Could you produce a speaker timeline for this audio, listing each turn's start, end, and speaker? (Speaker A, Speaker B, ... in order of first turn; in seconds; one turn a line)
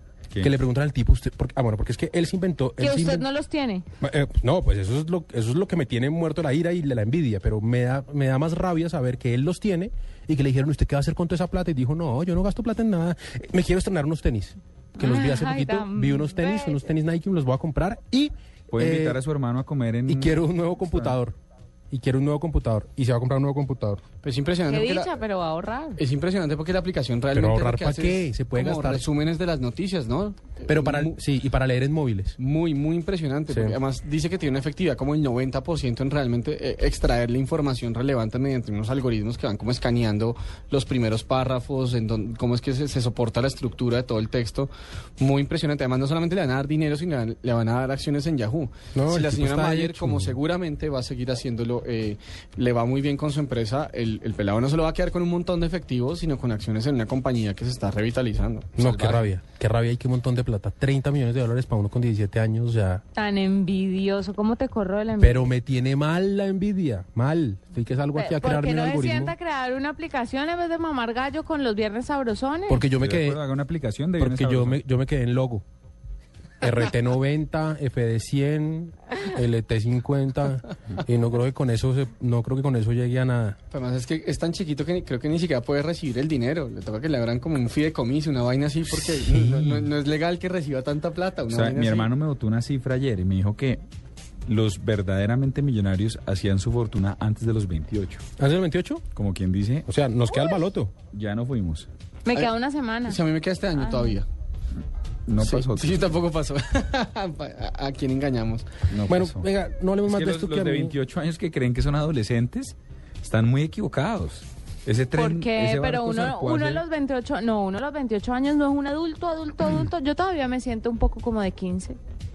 Speaker A: 0.4-3.3
Speaker B: 2.8-3.9
Speaker A: 4.0-19.2
Speaker B: 15.0-16.8
Speaker C: 18.7-20.4
Speaker A: 20.1-21.4
Speaker A: 21.9-24.0
Speaker D: 24.2-25.2
Speaker B: 24.7-26.0
Speaker D: 26.0-31.2
Speaker A: 27.3-29.1
Speaker A: 30.7-32.4
Speaker D: 32.4-58.8
Speaker A: 33.5-33.8
Speaker A: 48.9-50.3
Speaker A: 58.8-63.0
Speaker C: 58.8-59.3
Speaker B: 63.1-65.5
Speaker A: 65.2-69.3
Speaker B: 68.1-72.9
Speaker A: 72.7-73.4
Speaker C: 73.0-74.8
Speaker A: 74.2-75.6
Speaker A: 76.6-83.6
Speaker D: 83.7-92.1
Speaker C: 91.5-93.8
Speaker C: 94.5-98.2
Speaker A: 98.4-99.0
Speaker C: 99.2-99.9
Speaker A: 99.9-100.9
Speaker C: 101.1-101.9
Speaker B: 102.3-103.2
Speaker D: 103.1-104.2
Speaker B: 103.8-104.2
Speaker C: 105.3-106.2
Speaker D: 105.4-108.8
Speaker C: 108.9-109.5
Speaker A: 109.1-111.0
Speaker C: 110.1-116.8
Speaker B: 115.2-122.0